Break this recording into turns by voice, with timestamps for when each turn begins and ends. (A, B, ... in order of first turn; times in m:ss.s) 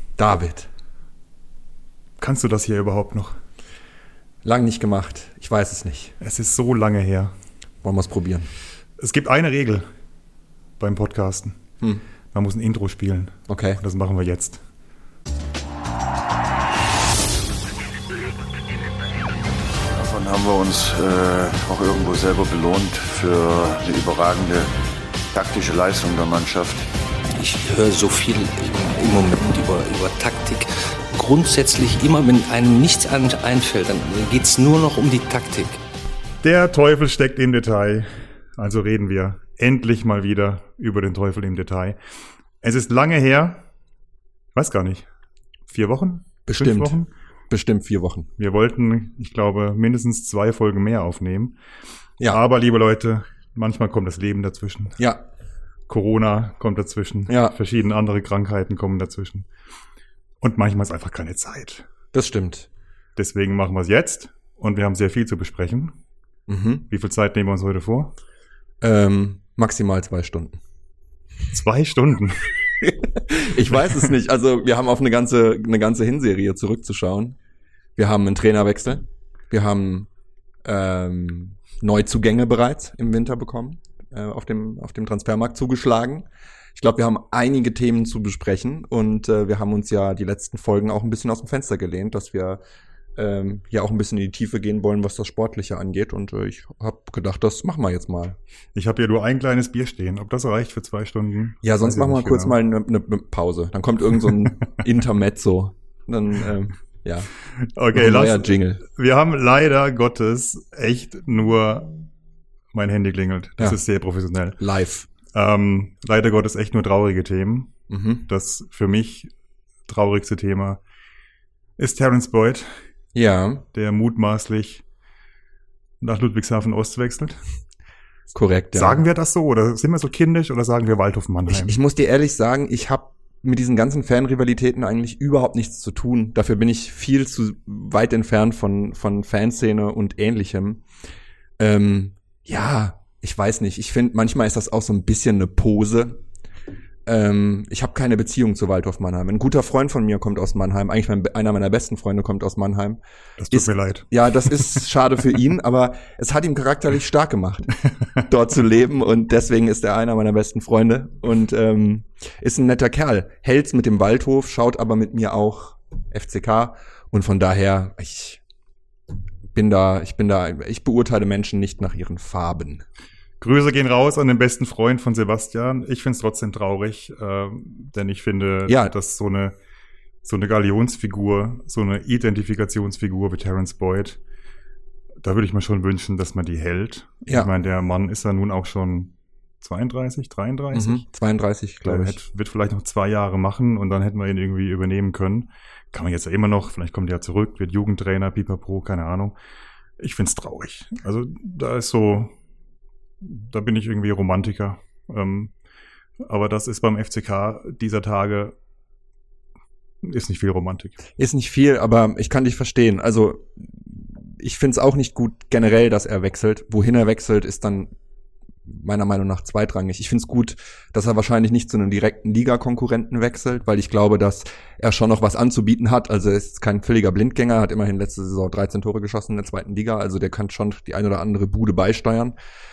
0:00.2-0:00.7 A
0:02.2-0:03.4 B
0:04.4-0:06.1 A
0:06.2-0:07.3 B
0:07.8-0:08.5 A
0:09.0-0:09.8 B
0:10.8-0:11.6 B
0:12.3-0:14.6 B
0:13.5-0:13.8 A
0:19.9-0:24.7 C
0:25.3-0:26.9 C
0:27.3-0:35.8 D
0:36.4-0:42.0 B
0:42.6-0:43.6 B
0:44.5-0:45.1 B
0:45.7-0:47.1 B
0:46.5-0:47.0 A
0:47.5-0:48.3 A
0:48.4-0:51.6 B
0:52.2-0:55.0 B
0:55.9-0:59.5 B
0:57.3-0:57.5 A
1:00.4-1:01.9 B
1:02.1-1:02.7 A
1:03.2-1:05.9 B
1:06.5-1:06.8 A
1:06.9-1:08.1 B
1:08.8-1:10.6 A
1:11.5-1:12.5 B
1:12.8-1:17.4 A
1:18.0-1:20.1 A
1:20.6-1:32.6 A
1:33.2-1:38.4 A
1:38.7-1:42.6 B
1:41.6-1:47.3 A
1:47.7-1:52.0 B
1:47.9-1:48.8 A
1:52.7-1:54.6 B
1:54.6-1:55.1 A
1:55.3-1:59.3 B
1:57.9-1:58.2 A
1:59.8-2:00.8 B
2:01.8-2:02.8 B
2:03.1-2:03.6 A
2:03.7-2:04.8 B
2:06.0-2:07.4 B
2:08.3-2:09.0 A
2:08.7-2:11.7 B
2:11.5-2:20.8 A
2:21.6-2:26.2 A
2:27.0-2:33.0 A
2:33.4-2:34.8 B
2:33.5-2:37.7 A
2:38.2-2:48.4 A
2:49.5-2:52.8 A
2:53.4-2:59.6 B
2:58.7-2:58.9 A
3:00.2-3:04.2 B
3:05.2-3:11.0 B
3:10.7-3:12.2 A
3:11.8-3:19.3 B
3:20.0-3:22.3 B
3:23.2-3:25.5 B
3:26.2-3:28.6 B
3:30.0-3:31.0 B
3:31.2-3:37.9 A
3:38.6-3:52.3 A